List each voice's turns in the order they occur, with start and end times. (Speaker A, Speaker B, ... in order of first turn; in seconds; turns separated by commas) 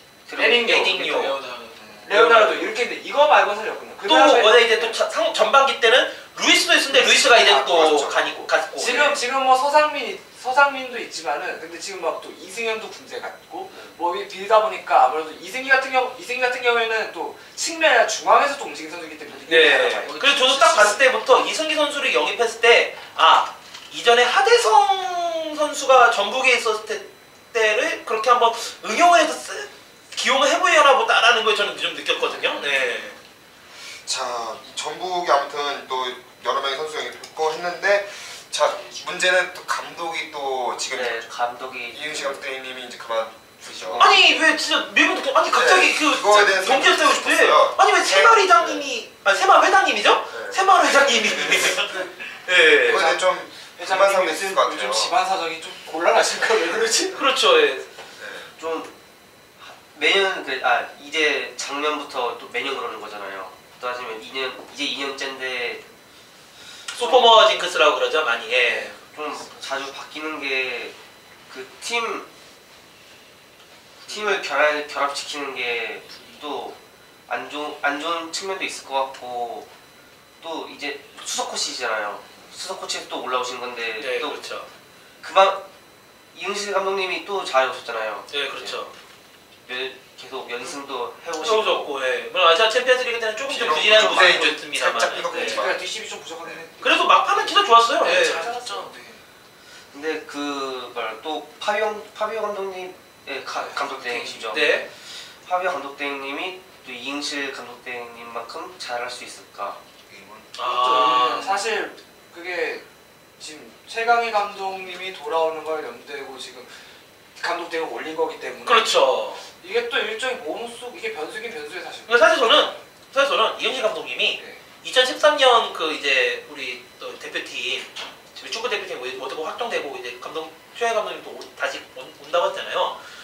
Speaker A: 0.3-0.7, Speaker B: 0.3-1.0, Speaker C: 0.5-1.4, Speaker D: 0.8-2.6, Speaker B: 2.0-5.0, Speaker C: 2.1-2.5, Speaker C: 4.1-9.2, Speaker B: 6.9-7.9, Speaker E: 7.6-8.5, Speaker B: 8.8-20.3, Speaker C: 19.5-33.2, Speaker D: 20.2-20.9, Speaker A: 20.3-21.0, Speaker E: 32.3-33.1, Speaker E: 34.0-41.3, Speaker A: 40.9-42.5, Speaker E: 41.9-44.1, Speaker A: 43.6-44.3, Speaker C: 44.0-53.0, Speaker E: 45.5-48.9, Speaker E: 50.3-50.6, Speaker E: 52.8-55.1, Speaker B: 52.9-57.2, Speaker C: 57.1-57.9, Speaker E: 58.2-58.5, Speaker A: 58.6-59.0, Speaker A: 59.6-65.8, Speaker C: 66.9-68.9, Speaker A: 68.6-71.0, Speaker A: 71.5-72.3, Speaker A: 74.1-79.7, Speaker A: 80.4-84.5, Speaker C: 84.0-84.7, Speaker A: 85.2-85.7, Speaker A: 86.3-88.8, Speaker C: 88.3-88.9, Speaker A: 89.7-91.9, Speaker C: 91.4-95.6, Speaker A: 93.5-94.5, Speaker E: 93.5-95.8, Speaker B: 95.3-98.9, Speaker C: 96.8-98.5, Speaker D: 98.0-99.2, Speaker A: 99.9-109.8, Speaker D: 103.6-104.6, Speaker C: 104.5-104.9, Speaker E: 110.1-110.7, Speaker C: 110.6-111.8, Speaker B: 110.6-112.8, Speaker B: 113.4-116.7, Speaker B: 117.4-122.8, Speaker C: 118.6-119.5, Speaker C: 122.1-133.0